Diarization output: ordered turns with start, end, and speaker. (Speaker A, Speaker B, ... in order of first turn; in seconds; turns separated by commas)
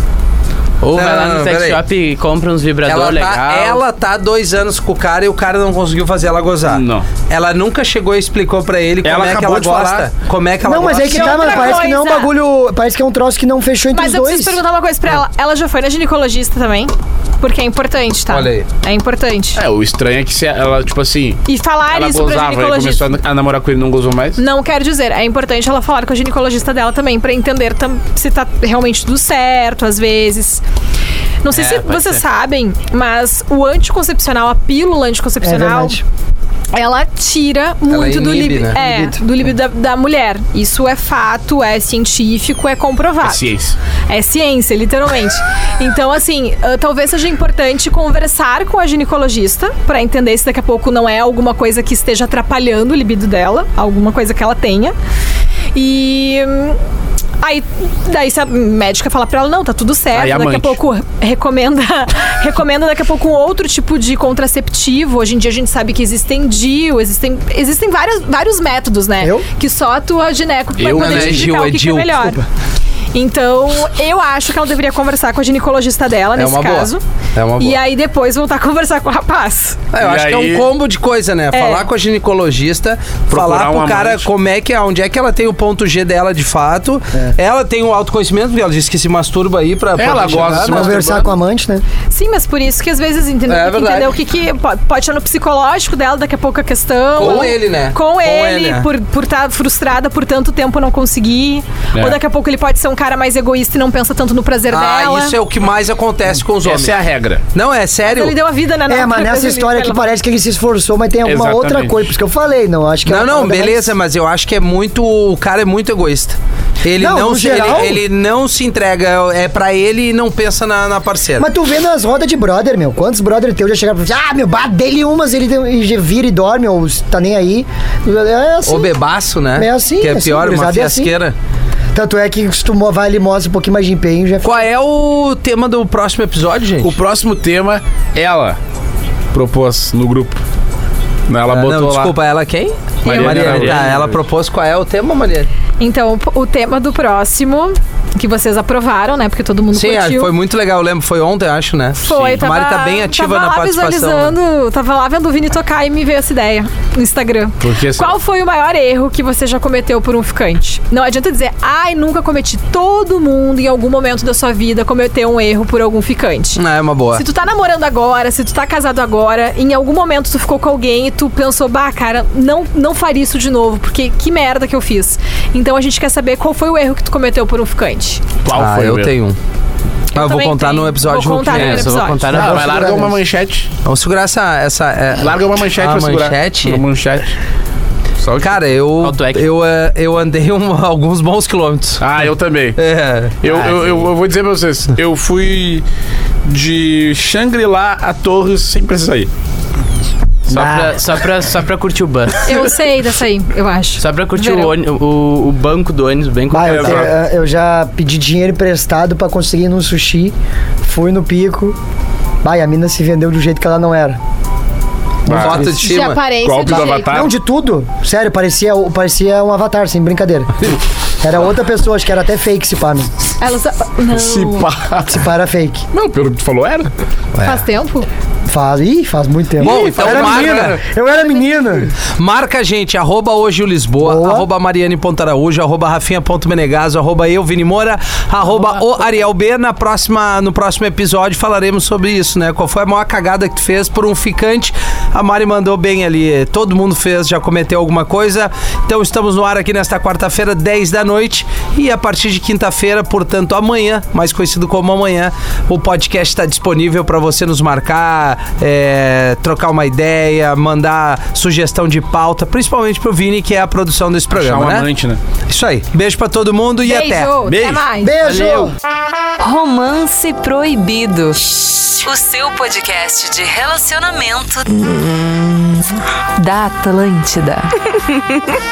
Speaker A: 0.8-3.8, Speaker B: 0.9-1.8, Speaker B: 2.8-11.8, Speaker C: 6.7-7.1, Speaker C: 9.0-10.1, Speaker D: 10.6-14.6, Speaker E: 11.0-12.3, Speaker E: 13.9-19.6, Speaker B: 18.3-18.7, Speaker C: 19.6-24.4, Speaker E: 21.5-23.1, Speaker E: 24.4-30.6, Speaker E: 31.4-36.0, Speaker A: 31.5-32.2, Speaker D: 35.4-36.0, Speaker E: 36.7-43.5, Speaker B: 37.9-38.8, Speaker D: 38.8-39.2, Speaker C: 43.2-43.8, Speaker E: 44.1-55.0, Speaker E: 55.8-56.8, Speaker E: 57.4-72.5, Speaker C: 60.1-60.8, Speaker D: 69.2-69.5, Speaker C: 70.8-71.5, Speaker B: 70.8-72.4, Speaker E: 73.1-77.0, Speaker B: 76.3-77.8, Speaker E: 77.6-79.8, Speaker B: 79.9-91.0, Speaker C: 80.0-80.7, Speaker E: 81.5-81.9, Speaker C: 83.3-84.3, Speaker C: 90.0-91.3, Speaker D: 90.7-91.8, Speaker E: 92.1-105.4, Speaker B: 93.5-94.2, Speaker B: 97.2-98.9, Speaker B: 104.7-107.0, Speaker C: 106.6-107.4, Speaker B: 107.5-108.4, Speaker E: 108.1-110.0, Speaker D: 108.9-114.0, Speaker C: 111.2-112.0, Speaker B: 113.1-121.5, Speaker D: 117.0-118.0, Speaker D: 121.4-129.0, Speaker B: 128.7-131.3, Speaker D: 129.6-131.1, Speaker D: 131.9-134.7, Speaker B: 134.4-137.0, Speaker C: 136.8-138.6, Speaker C: 139.3-140.4, Speaker C: 141.3-142.1, Speaker B: 141.5-145.5, Speaker C: 143.0-144.1, Speaker A: 143.1-144.0, Speaker E: 145.8-150.3, Speaker B: 149.7-154.3, Speaker E: 152.0-166.6, Speaker C: 157.6-158.2, Speaker B: 166.6-167.2, Speaker E: 167.1-178.2, Speaker C: 178.4-179.2, Speaker B: 178.5-179.4, Speaker E: 180.1-182.4, Speaker B: 180.1-182.1, Speaker A: 181.5-182.9, Speaker C: 182.3-183.7, Speaker D: 182.3-183.2, Speaker B: 183.8-186.8, Speaker C: 185.2-187.3, Speaker B: 188.4-192.0, Speaker A: 189.0-189.5, Speaker C: 192.0-192.8, Speaker B: 192.8-193.4, Speaker C: 193.4-195.8, Speaker A: 193.5-193.9, Speaker C: 196.5-199.3, Speaker D: 200.5-201.0, Speaker C: 200.5-200.9, Speaker A: 200.6-202.6, Speaker E: 202.4-204.7, Speaker A: 204.0-207.1, Speaker D: 206.5-211.8, Speaker C: 206.7-207.1, Speaker D: 212.4-214.2, Speaker D: 215.3-215.8, Speaker C: 215.3-215.7, Speaker B: 215.3-216.2, Speaker E: 215.8-217.2, Speaker C: 216.3-217.3, Speaker D: 217.1-220.6, Speaker D: 221.2-223.1, Speaker E: 223.4-224.7, Speaker C: 224.1-225.2, Speaker D: 225.1-225.8, Speaker C: 225.9-226.9, Speaker B: 227.3-227.6, Speaker E: 227.4-228.1, Speaker D: 228.5-231.9, Speaker B: 229.6-230.8, Speaker C: 229.6-230.8, Speaker E: 231.1-231.4, Speaker B: 232.2-264.9, Speaker D: 234.0-234.5, Speaker C: 264.3-265.2, Speaker B: 265.5-267.3, Speaker E: 266.8-268.4, Speaker C: 267.5-267.8, Speaker D: 268.0-268.7, Speaker F: 269.4-275.8, Speaker F: 276.4-277.8